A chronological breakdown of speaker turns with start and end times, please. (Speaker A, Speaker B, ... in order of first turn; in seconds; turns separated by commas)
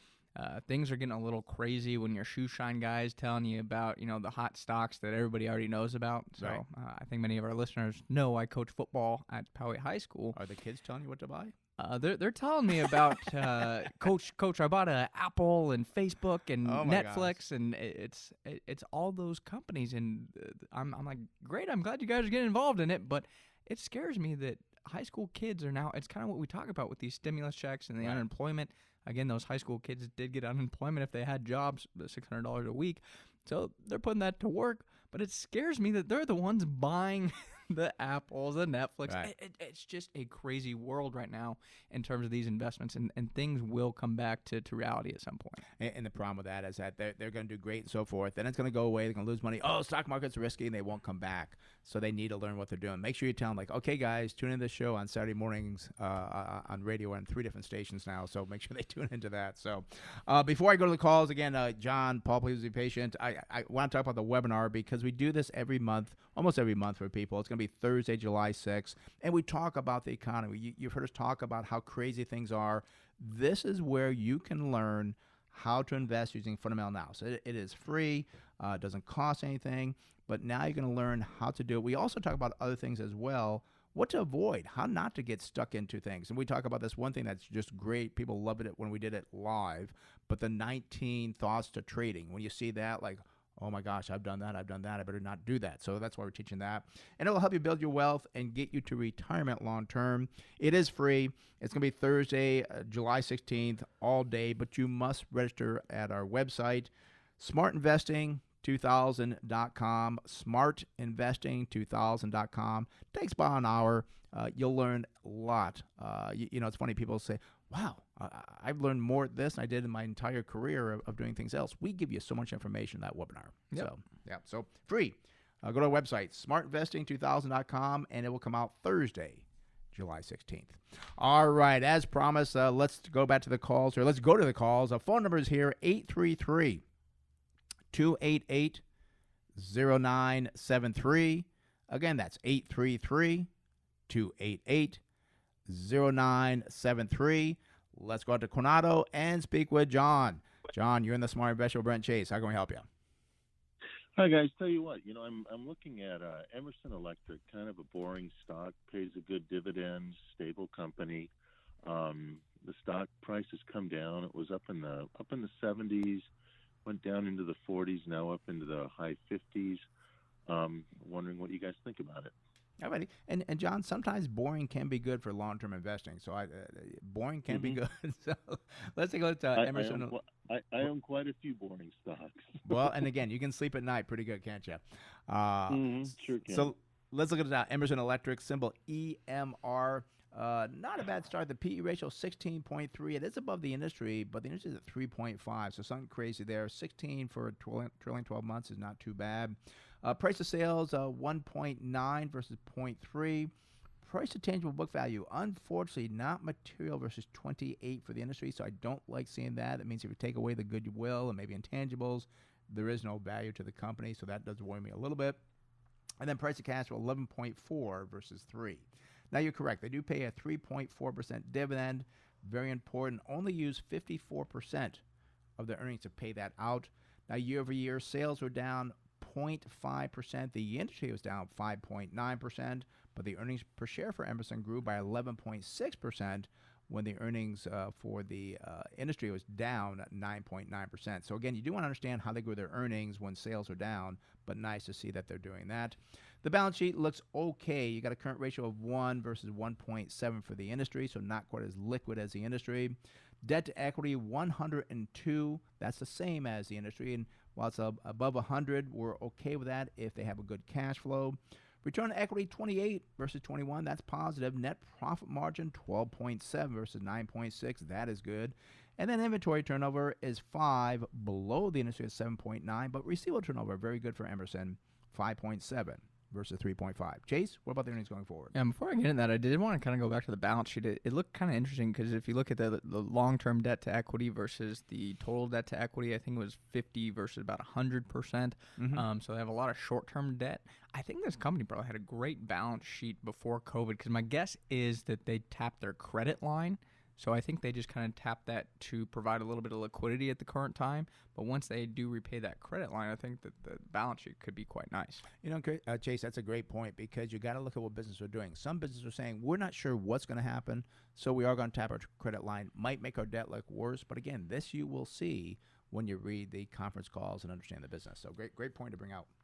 Speaker A: 0.3-10.4, Speaker B: 10.3-11.5, Speaker A: 11.8-45.6, Speaker B: 12.8-13.7, Speaker B: 16.6-17.4, Speaker B: 39.0-39.3, Speaker B: 45.8-136.8, Speaker B: 137.9-138.8, Speaker B: 139.5-143.5, Speaker B: 144.1-145.0, Speaker B: 145.7-152.9, Speaker C: 154.2-161.3, Speaker C: 161.8-166.3, Speaker C: 166.8-169.8, Speaker C: 170.5-172.3, Speaker B: 172.8-180.1, Speaker C: 177.5-177.8, Speaker C: 179.6-182.9, Speaker B: 182.6-185.9, Speaker C: 185.7-186.7, Speaker B: 186.4-215.4, Speaker B: 216.2-225.0, Speaker B: 225.6-278.5, Speaker A: 278.5-305.2, Speaker B: 288.8-289.1, Speaker B: 305.4-319.3